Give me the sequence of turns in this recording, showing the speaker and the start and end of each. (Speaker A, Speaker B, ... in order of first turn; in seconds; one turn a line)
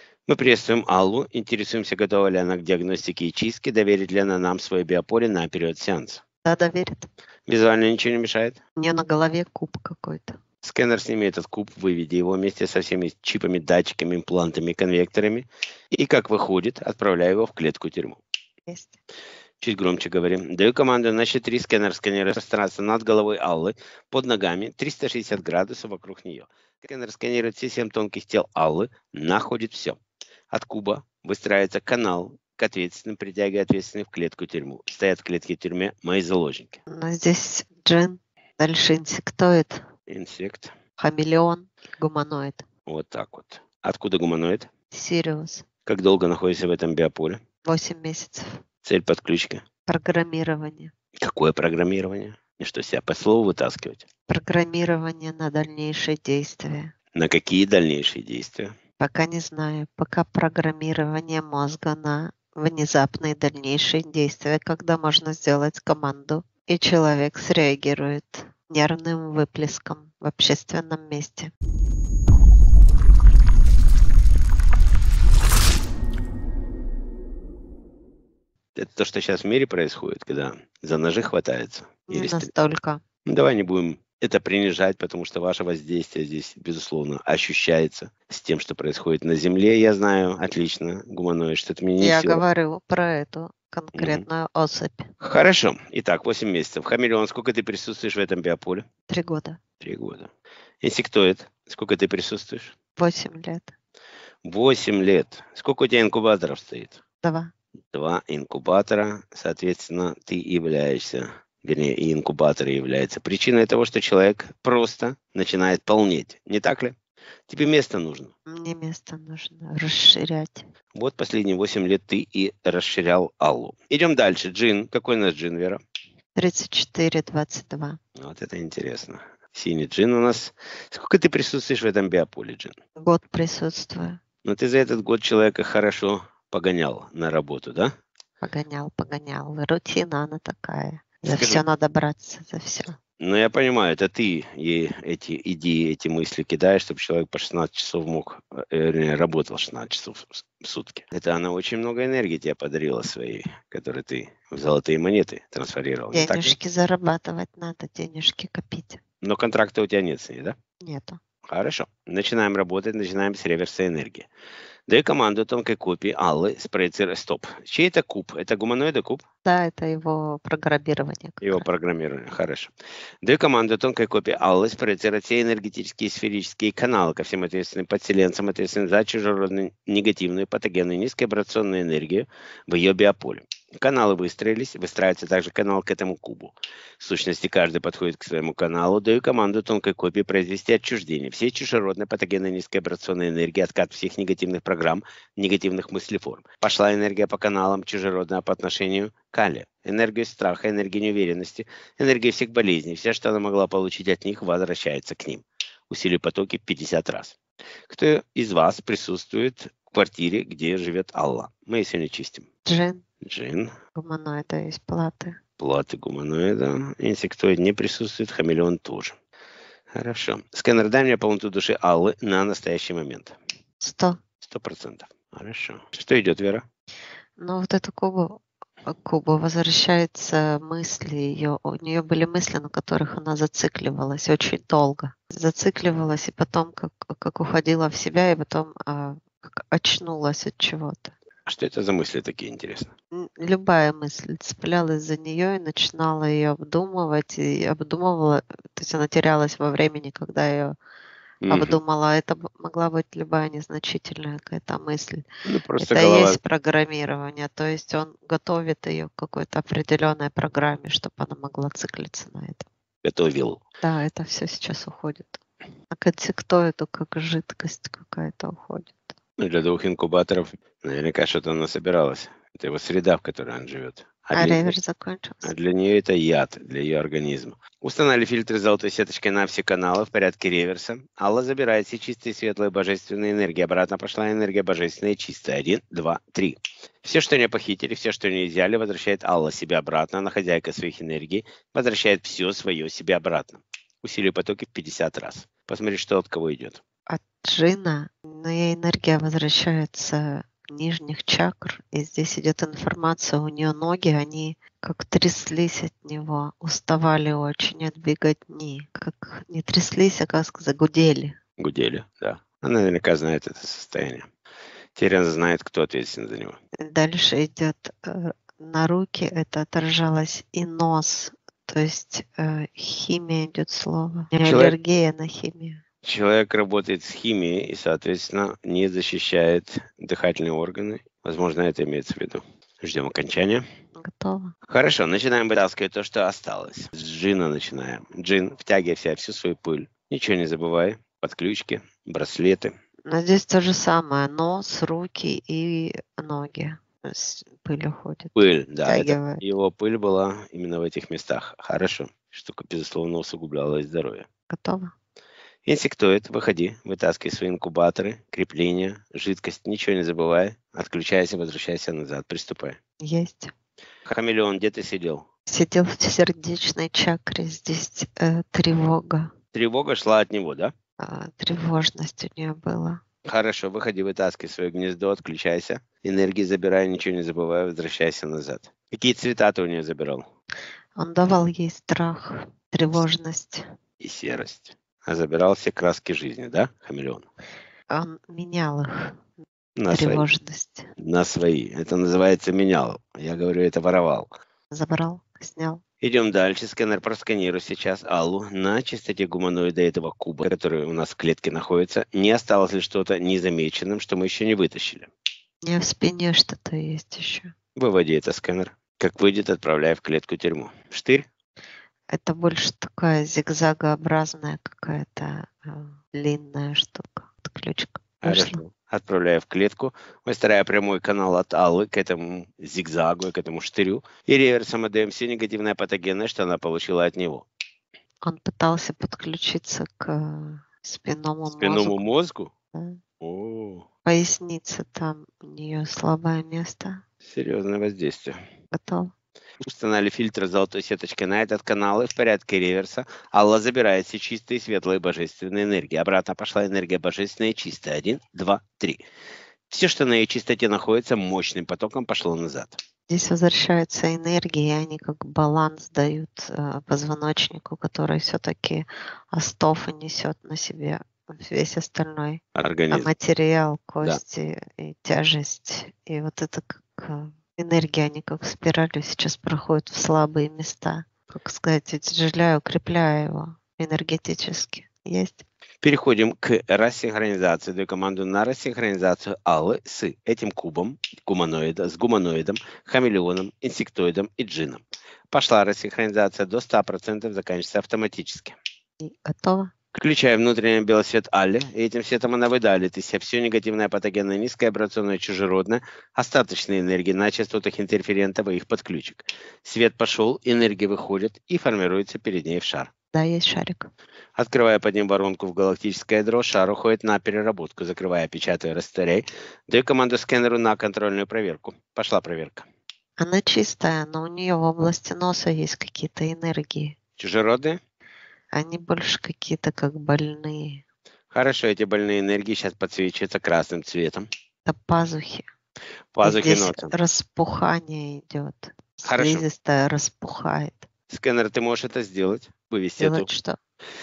Speaker A: 0.3-6.2
Speaker B: 6.5-7.1
Speaker A: 7.5-8.6
Speaker B: 8.8-10.4
Speaker A: 10.6-18.2
Speaker B: 18.7-19.0
Speaker A: 19.6-30.0
Speaker A: 30.5-36.8
Speaker B: 36.9-39.8
Speaker A: 40.1-40.7
Speaker B: 41.0-42.6
Speaker A: 42.9-44.7
Speaker B: 44.9-45.6
Speaker A: 45.9-47.4
Speaker B: 47.6-48.6
Speaker A: 48.9-49.6
Speaker B: 49.9-50.9
Speaker A: 51.2-54.1
Speaker B: 54.3-56.9
Speaker A: 57.1-58.7
Speaker B: 59.0-71.5
Speaker A: 78.8-82.5
Speaker B: 82.1-83.0
Speaker A: 83.3-92.4
Speaker B: 92.0-95.1
Speaker A: 94.0-94.2
Speaker A: 95.2-98.8
Speaker B: 99.1-99.6
Speaker A: 99.8-100.3
Speaker A: 100.8-102.7
Speaker B: 103.0-103.7
Speaker A: 104.4-107.0
Speaker B: 107.2-107.5
Speaker A: 107.9-117.0
Speaker A: 117.5-118.3
Speaker B: 118.5-120.7
Speaker A: 120.9-125.8
Speaker B: 126.3-128.0
Speaker A: 128.2-132.8
Speaker B: 133.0-134.2
Speaker A: 134.4-137.9
Speaker B: 138.4-143.0
Speaker A: 141.2-141.6
Speaker A: 143.2-156.6
Speaker B: 156.1-159.0
Speaker A: 159.2-160.6
Speaker B: 160.8-161.2
Speaker A: 161.5-164.3
Speaker A: 164.9-169.2
Speaker B: 169.4-171.7
Speaker A: 171.4-172.7
Speaker A: 173.2-207.4
Speaker A: 207.9-212.5
Speaker B: 212.7-213.0
Speaker A: 213.2-213.7
Speaker B: 213.9-215.4
Speaker A: 215.6-219.2
Speaker A: 219.9-223.4
Speaker B: 223.8-224.2
Speaker A: 224.4-226.6
Speaker B: 227.4-241.2
Speaker A: 241.5-242.9
Speaker B: 243.2-250.8
Speaker A: 251.4-251.8
Speaker B: 251.5-255.2
Speaker A: 255.4-256.4
Speaker B: 255.8-262.7
Speaker A: 263.0-263.6
Speaker B: 263.8-265.4
Speaker B: 265.9-269.2
Speaker A: 269.4-274.8
Speaker B: 274.3-275.5
Speaker A: 275.4-296.8
Speaker B: 297.1-311.4
Speaker A: 311.6-314.3
Speaker A: 315.0-316.6
Speaker B: 316.8-325.8
Speaker A: 324.4-324.8
Speaker A: 326.0-333.6
Speaker B: 334.0-334.5
Speaker A: 334.7-342.7
Speaker B: 343.1-349.4
Speaker A: 348.4-354.3
Speaker B: 354.5-354.9
Speaker A: 355.7-362.8
Speaker B: 363.0-363.5
Speaker A: 364.1-365.3
Speaker B: 365.5-369.3
Speaker A: 369.5-370.7
Speaker B: 371.0-373.0
Speaker A: 373.2-380.3
Speaker B: 381.0-383.7
Speaker A: 384.0-387.3
Speaker B: 387.9-389.2
Speaker A: 389.8-390.2
Speaker B: 389.9-390.9
Speaker A: 391.0-394.3
Speaker B: 394.7-395.8
Speaker A: 396.0-405.1
Speaker B: 405.6-407.5
Speaker A: 407.8-411.3
Speaker B: 412.1-418.6
Speaker A: 418.2-427.5
Speaker B: 428.2-432.0
Speaker A: 431.6-432.5
Speaker B: 432.7-433.0
Speaker A: 433.2-433.9
Speaker B: 434.1-437.0
Speaker A: 437.2-438.4
Speaker B: 438.7-439.1
Speaker A: 439.6-449.0
Speaker A: 449.7-452.8
Speaker B: 453.1-475.5
Speaker A: 462.6-463.1
Speaker A: 475.8-488.6
Speaker B: 489.0-489.7
Speaker A: 489.9-502.9
Speaker B: 503.1-503.9
Speaker A: 504.4-512.7
Speaker B: 513.2-517.0
Speaker A: 517.2-517.8
Speaker B: 518.5-520.8
Speaker A: 521.3-524.3
Speaker B: 524.7-525.5
Speaker A: 526.1-527.0
Speaker B: 526.2-530.9
Speaker A: 529.0-529.5
Speaker A: 531.1-533.3
Speaker B: 533.0-533.6